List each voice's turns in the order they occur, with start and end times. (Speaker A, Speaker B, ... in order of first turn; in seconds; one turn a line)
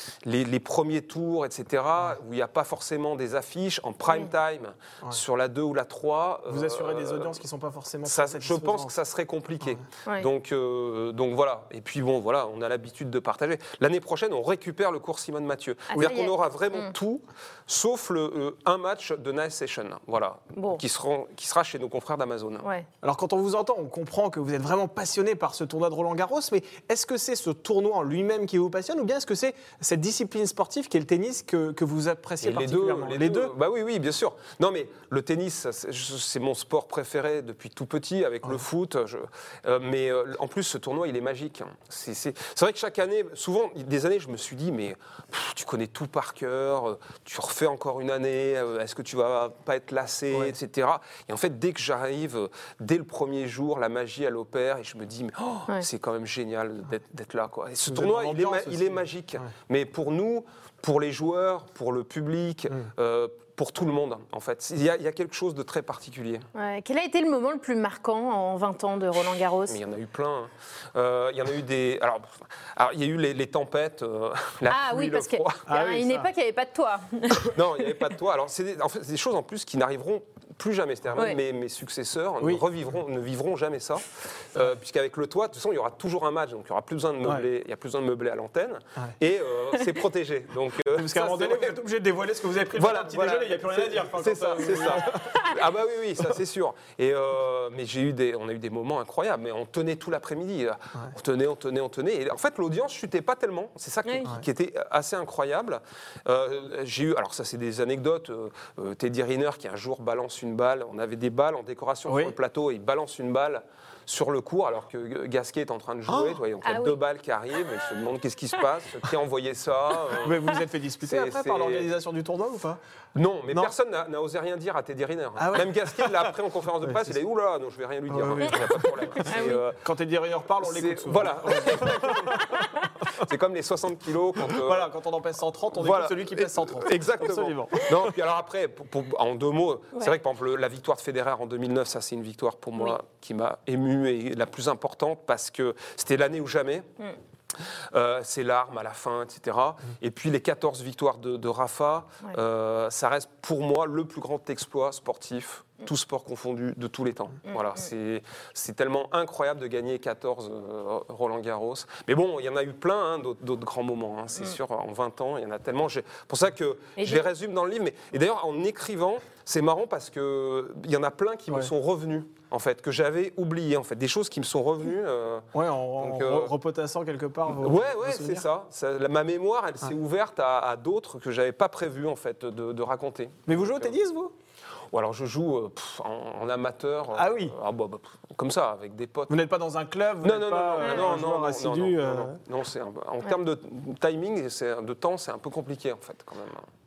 Speaker A: 0.2-7.4
Speaker B: 6.5-8.9
Speaker A: 8.1-22.6
Speaker C: 15.9-16.9
Speaker C: 20.5-20.8
Speaker B: 23.0-33.5
Speaker A: 32.4-66.5
Speaker B: 57.9-59.5
Speaker C: 66.5-69.8
Speaker A: 69.7-75.6
Speaker C: 74.7-77.5
Speaker B: 75.7-76.3
Speaker A: 77.5-91.8
Speaker B: 90.9-95.3
Speaker A: 92.7-120.5
Speaker C: 95.1-95.5
Speaker B: 112.0-112.3
Speaker B: 116.1-116.4
Speaker C: 116.6-117.0
Speaker B: 120.2-122.8
Speaker A: 121.0-121.9
Speaker A: 123.2-129.8
Speaker B: 125.4-126.3
Speaker B: 126.8-127.2
Speaker B: 128.1-132.7
Speaker C: 129.2-129.6
Speaker A: 130.6-134.9
Speaker B: 134.4-138.0
Speaker A: 135.7-146.9
Speaker A: 147.9-175.5
Speaker C: 167.0-167.3
Speaker B: 175.5-178.4
Speaker A: 176.0-176.5
Speaker A: 177.6-183.9
Speaker B: 183.5-184.3
Speaker A: 184.9-189.4
Speaker B: 187.1-187.5
Speaker B: 189.3-192.4
Speaker A: 190.2-196.7